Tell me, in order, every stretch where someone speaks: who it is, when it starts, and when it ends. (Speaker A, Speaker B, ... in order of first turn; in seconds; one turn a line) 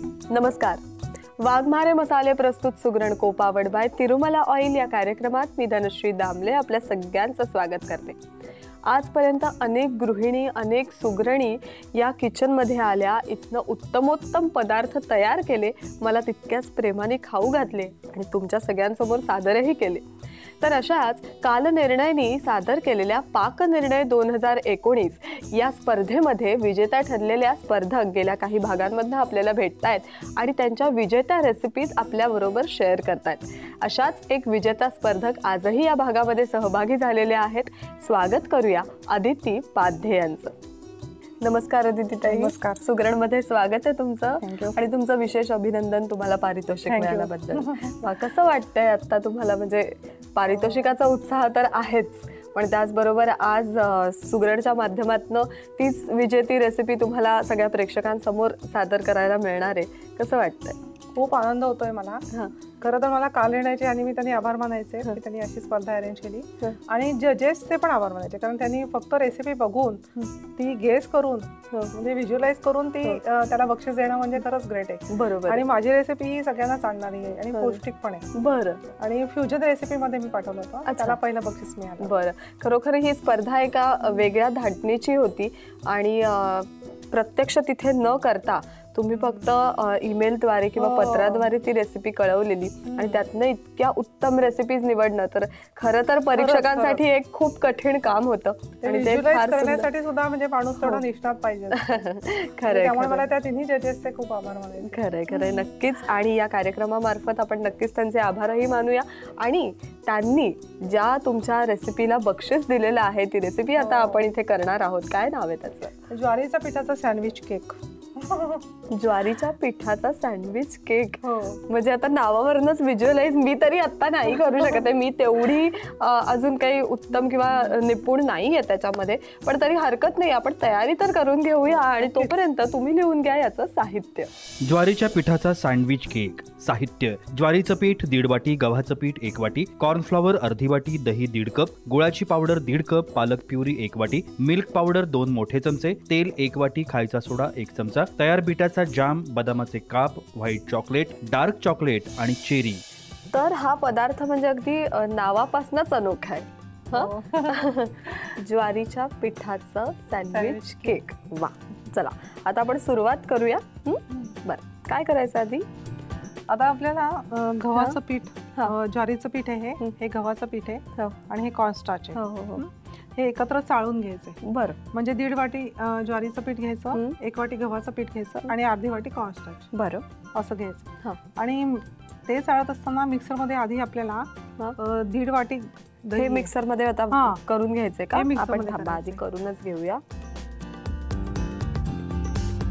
Speaker A: 0.3-0.8
Speaker A: 1.4-8.2
Speaker A: 8.8-20.1
Speaker A: 20.6-40.5
Speaker A: 41.4-60.8
Speaker B: 42.2-42.7
Speaker B: 44.4-44.8
Speaker B: 46.9-48.0
Speaker B: 50.5-50.9
Speaker B: 61.1-62.2
Speaker B: 62.8-78.3
Speaker A: 75.1-75.7
Speaker A: 77.5-77.8
Speaker A: 78.3-78.8
Speaker B: 79.0-82.1
Speaker A: 80.9-81.2
Speaker A: 82.0-99.9
Speaker B: 89.2-89.4
Speaker B: 90.8-91.5
Speaker B: 92.9-93.2
Speaker B: 96.4-97.0
Speaker B: 98.8-102.0
Speaker A: 101.7-103.3
Speaker B: 102.6-105.7
Speaker A: 104.8-116.0
Speaker B: 113.8-114.2
Speaker B: 116.1-118.7
Speaker A: 118.9-134.3
Speaker B: 121.2-121.6
Speaker B: 124.4-124.8
Speaker B: 131.8-132.3
Speaker C: 134.6-152.8
Speaker A: 153.3-165.7
Speaker B: 156.9-158.1
Speaker B: 160.3-161.0
Speaker B: 166.5-174.4
Speaker A: 172.1-172.7
Speaker A: 174.4-174.8
Speaker B: 174.9-179.7
Speaker A: 179.7-180.0
Speaker B: 180.3-186.5
Speaker A: 186.1-190.0
Speaker B: 187.1-187.4
Speaker B: 188.1-189.2